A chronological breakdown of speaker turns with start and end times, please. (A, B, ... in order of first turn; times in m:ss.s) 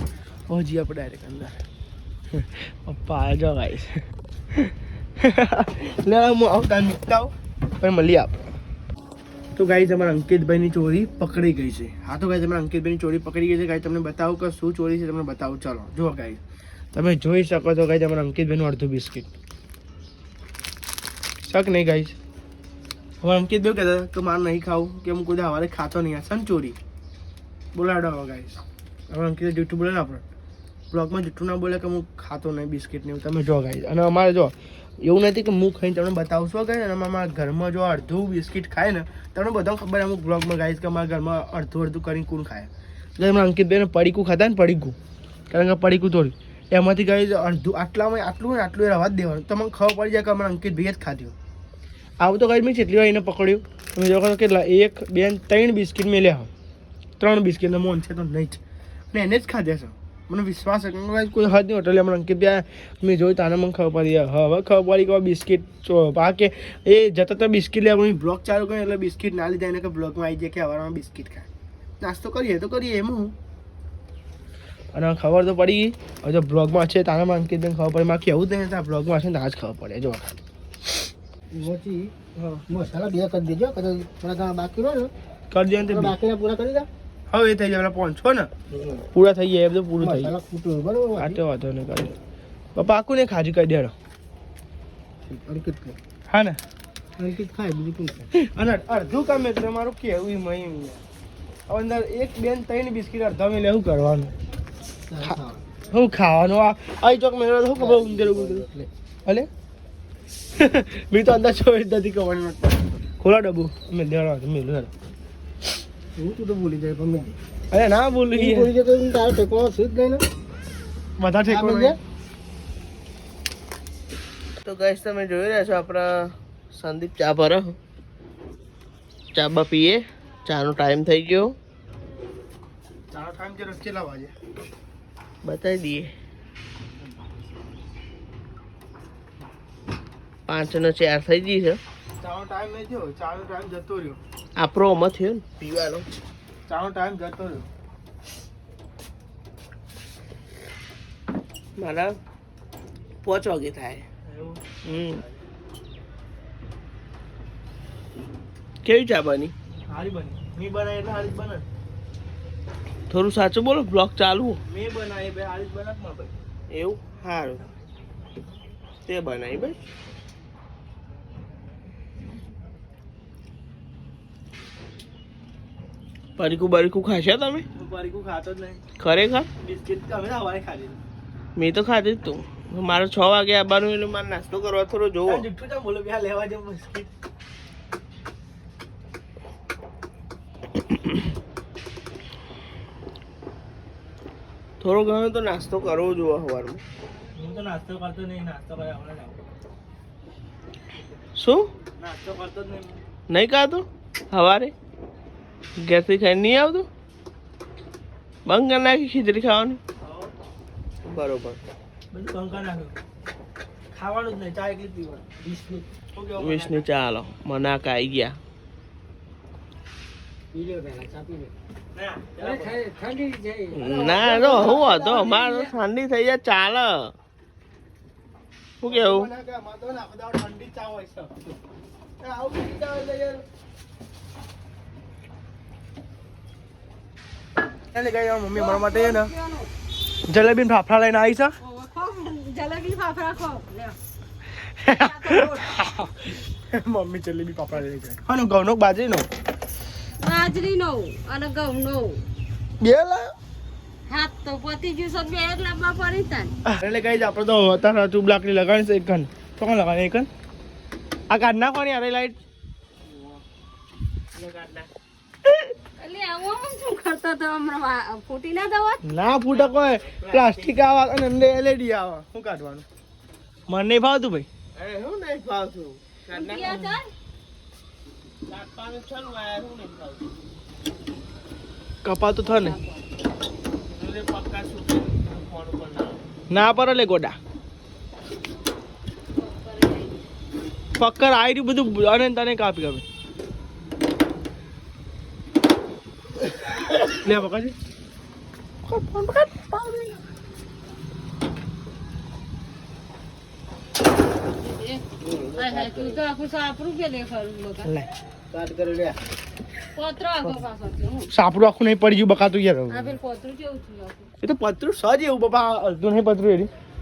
0:00.5-0:01.6 A
0:02.3-0:08.5 A
0:09.6-0:16.4 A
0:16.9-0:19.3 A
0:21.4-0:22.2 A
0:23.2-0:26.8 A
0:27.7-0:30.2 A
0:30.9-0:45.0 A
0:45.5-0:51.4 A
0:52.2-0:56.5 A
0:57.2-0:58.6 A
0:59.1-1:11.5 A
1:12.0-1:13.4 A
1:14.9-1:20.4 A
1:21.5-1:22.1 B
1:22.4-1:22.6 A
1:22.7-1:25.1 B
1:25.5-1:26.2 A
1:25.8-1:26.9 B
1:27.3-1:28.5 A
1:28.7-1:29.0 B
1:29.1-1:30.4 A
1:30.0-1:31.4 B
1:31.2-1:32.2 A
1:32.8-1:33.9 A
1:35.3-1:36.0 B
1:36.3-1:36.6 A
1:37.2-1:38.3 B
1:38.3-1:41.0 A
1:41.7-1:44.3 A
1:45.1-1:45.7 B
1:45.9-1:48.7 A
1:47.8-1:48.9 B
1:50.6-1:54.9 A
1:56.2-1:57.4 B
1:57.7-1:58.7 A
1:58.3-2:00.2 B
2:01.2-2:02.0 A
2:01.4-2:02.0 B
2:04.6-2:07.8 C
2:09.3-2:11.6 C
2:13.1-2:14.3 A
2:15.4-2:16.1 C
2:20.5-2:21.8 C
2:22.2-2:24.2 A
2:24.6-2:26.1 C
2:26.7-2:27.7 A
2:31.8-2:32.1 C
2:33.2-2:34.1 C
2:34.2-2:35.2 A
2:34.8-2:35.2 C
2:38.8-2:39.5 C
2:39.9-2:41.6 A
2:43.1-2:44.6 C
2:44.7-2:46.3 A
2:46.7-2:47.6 C
2:49.1-2:49.8 C
2:56.4-2:57.7 C
2:57.8-2:58.8 A
2:59.0-2:59.5 C
2:59.6-3:01.0 A
3:01.6-3:05.5 C
3:05.2-3:07.1 A
3:14.8-3:16.8 C
3:17.4-3:19.4 A
3:21.4-3:21.7 C
3:22.0-3:23.0 A
3:23.3-3:24.7 C
3:25.8-3:26.9 C
3:28.5-3:29.8 C
3:30.0-3:30.3 A
3:31.0-3:31.6 C
3:32.1-3:33.0 A
3:33.9-3:35.6 A
3:36.1-3:36.9 A
3:36.4-3:38.4 C
3:40.5-3:41.5 B
3:42.0-3:42.8 A
3:42.4-3:45.1 B
3:43.7-3:47.1 C
3:44.6-3:45.7 D
3:48.8-3:49.3 C
3:48.8-3:51.4 A
3:52.2-3:53.4 A
3:57.9-3:59.3 A
3:58.5-3:59.7 D
4:00.3-4:01.6 A
4:01.6-4:04.0 D
4:04.6-4:09.3 A
4:04.9-4:05.8 D
4:10.2-4:12.2 D
4:12.8-4:13.3 A
4:14.1-4:16.5 D
4:16.6-4:20.3 A
4:21.3-4:22.4 A
4:23.1-4:23.4 C
4:24.4-4:24.9 C
4:26.0-4:29.0 D
4:29.0-4:32.9 A
4:29.5-4:30.8 C
4:33.7-4:34.5 A
4:34.8-4:36.8 C
4:36.3-4:37.1 D
4:36.6-4:36.9 A
4:38.5-4:40.3 C
4:42.0-4:42.8 A
4:42.4-4:43.1 D
4:43.8-4:46.2 C
4:46.5-4:47.4 A
4:49.4-4:50.2 D
4:51.0-4:53.0 A
4:57.1-4:57.8 A
4:58.9-5:00.2 A
5:04.5-5:05.0 D
5:05.2-5:06.2 B
5:05.5-5:07.9 D
5:08.5-5:09.2 B
5:09.9-5:11.3 D
5:11.3-5:13.2 A
5:12.9-5:14.3 D
5:14.4-5:16.7 A